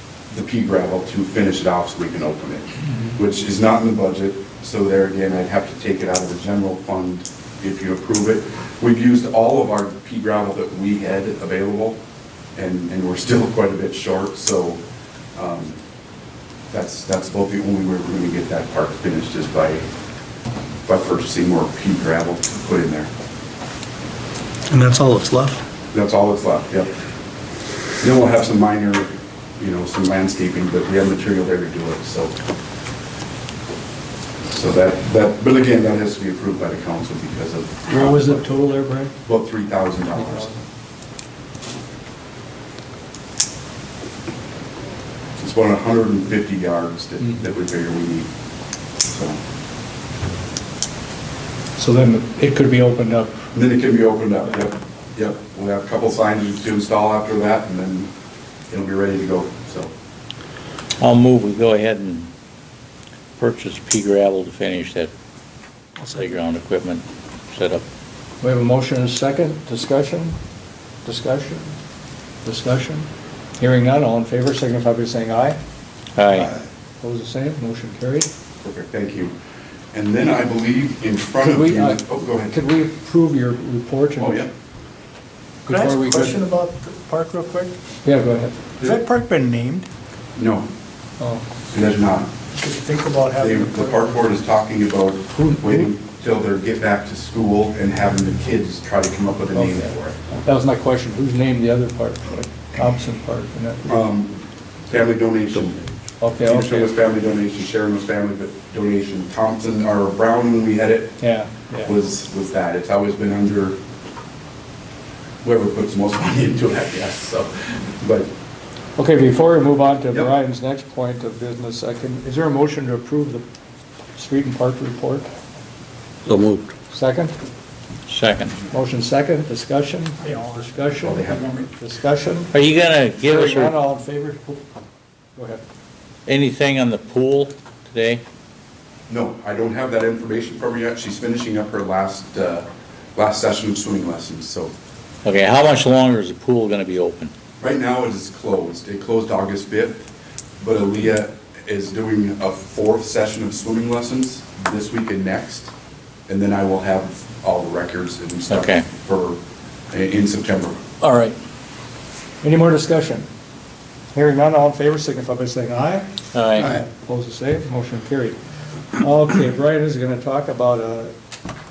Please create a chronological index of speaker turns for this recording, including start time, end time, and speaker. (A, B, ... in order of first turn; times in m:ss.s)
0:00.3-0:12.0 A
0:12.6-0:14.8 A
0:15.3-0:15.8 A
0:16.7-0:19.8 A
0:20.9-0:23.1 A
0:24.7-0:25.6 B
0:25.9-0:26.9 A
0:28.0-0:32.3 A
0:34.5-0:38.5 A
0:37.9-0:39.1 C
0:39.2-0:40.5 A
0:40.1-0:40.6 C
0:45.4-0:48.3 A
0:49.0-0:49.4 A
0:51.8-0:53.4 C
0:53.5-0:58.1 A
0:58.7-0:59.9 A
1:01.0-1:02.3 D
1:03.4-1:05.1 D
1:06.1-1:07.8 D
1:08.4-1:10.4 C
1:11.0-1:11.8 C
1:12.4-1:13.1 C
1:13.6-1:15.6 C
1:16.2-1:16.5 D
1:17.0-1:18.3 C
1:18.6-1:19.3 A
1:19.9-1:22.6 A
1:21.4-1:24.4 C
1:24.2-1:24.5 A
1:25.6-1:26.4 C
1:25.7-1:27.7 B
1:28.0-1:28.7 C
1:28.8-1:29.9 B
1:30.4-1:30.7 A
1:31.2-1:31.4 C
1:31.7-1:32.3 A
1:32.5-1:34.0 B
1:33.3-1:40.2 A
1:35.4-1:35.8 C
1:39.5-1:39.9 C
1:40.4-1:43.9 C
1:43.9-1:45.9 A
1:46.2-1:46.9 C
1:46.4-1:51.2 A
1:51.2-1:51.9 C
1:51.8-1:53.8 A
1:55.4-1:58.3 A
1:59.0-2:03.4 C
2:04.2-2:05.3 C
2:06.2-2:06.7 D
2:06.9-2:07.3 C
2:08.1-2:08.6 D
2:08.6-2:12.5 C
2:10.2-2:10.8 B
2:11.0-2:11.7 A
2:12.5-2:13.8 D
2:13.2-2:14.6 C
2:15.4-2:15.6 C
2:16.3-2:18.2 D
2:19.1-2:24.7 A
2:25.2-2:27.3 D
2:27.6-2:30.1 A
2:30.6-2:35.7 A
2:36.3-2:39.4 A
2:38.5-2:38.8 D
2:39.9-2:40.8 A
2:41.0-2:41.4 D
2:42.4-2:43.3 C
2:44.1-2:46.1 C
2:46.3-2:46.7 D
2:46.6-2:48.4 C
2:49.0-2:51.1 C